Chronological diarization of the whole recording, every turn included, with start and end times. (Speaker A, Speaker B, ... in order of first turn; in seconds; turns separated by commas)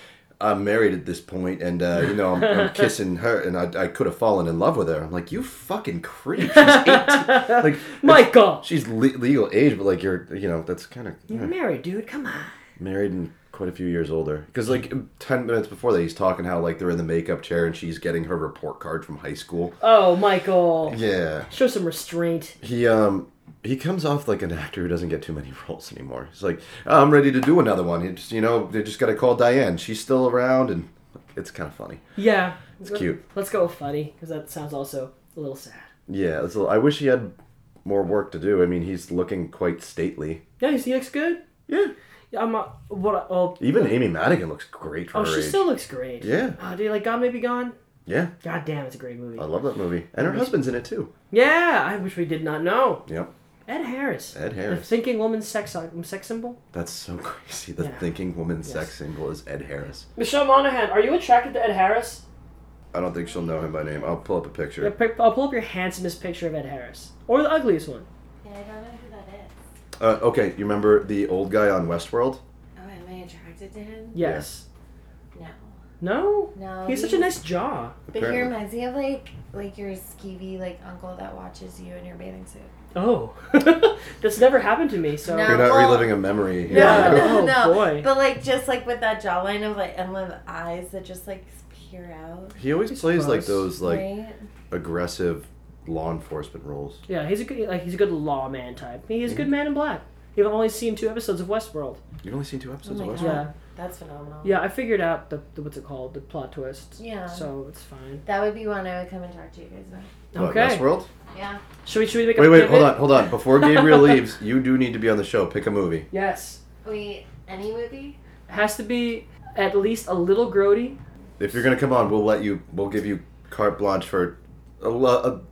Speaker A: 0.4-11.5, Speaker B: 2.4-2.9, Speaker B: 6.4-8.6, Speaker B: 11.3-12.6, Speaker A: 12.8-19.8, Speaker B: 19.8-21.0, Speaker A: 20.9-21.5, Speaker B: 21.5-22.6, Speaker A: 22.6-32.0, Speaker B: 32.1-35.9, Speaker A: 32.8-33.2, Speaker A: 36.1-37.3, Speaker A: 37.8-40.4, Speaker B: 40.6-41.4, Speaker A: 41.7-41.9, Speaker B: 42.3-43.9, Speaker A: 43.6-45.6, Speaker B: 45.1-47.7, Speaker A: 46.2-46.6, Speaker A: 48.1-48.3, Speaker B: 48.4-49.5, Speaker A: 49.4-51.1, Speaker B: 50.2-50.5, Speaker B: 51.3-53.0, Speaker B: 53.7-56.6, Speaker A: 54.3-54.9, Speaker A: 56.7-60.0, Speaker B: 57.8-58.0, Speaker B: 60.1-62.2, Speaker A: 62.9-64.9, Speaker C: 63.3-64.2, Speaker B: 64.8-68.1, Speaker C: 68.4-69.5, Speaker A: 70.0-72.4, Speaker C: 72.8-74.2, Speaker B: 74.1-74.6, Speaker A: 74.2-74.5, Speaker C: 75.3-75.8, Speaker B: 76.0-78.0, Speaker C: 76.5-77.3, Speaker A: 78.1-78.5, Speaker C: 78.1-82.7, Speaker B: 82.9-85.7, Speaker C: 85.2-92.6, Speaker A: 85.4-87.5, Speaker B: 86.7-88.1, Speaker A: 92.5-94.1, Speaker B: 92.9-93.7, Speaker C: 93.6-94.4, Speaker A: 94.7-97.0, Speaker B: 97.1-102.0, Speaker A: 102.2-103.4, Speaker C: 102.8-104.6, Speaker B: 103.2-103.5, Speaker B: 104.4-108.2, Speaker C: 107.0-107.5, Speaker C: 108.2-110.1, Speaker B: 110.3-110.8, Speaker A: 110.3-111.1, Speaker C: 111.3-111.6, Speaker B: 111.8-114.2, Speaker A: 112.3-116.1, Speaker B: 116.1-116.6, Speaker C: 116.8-118.2, Speaker B: 118.5-121.0, Speaker A: 121.4-125.4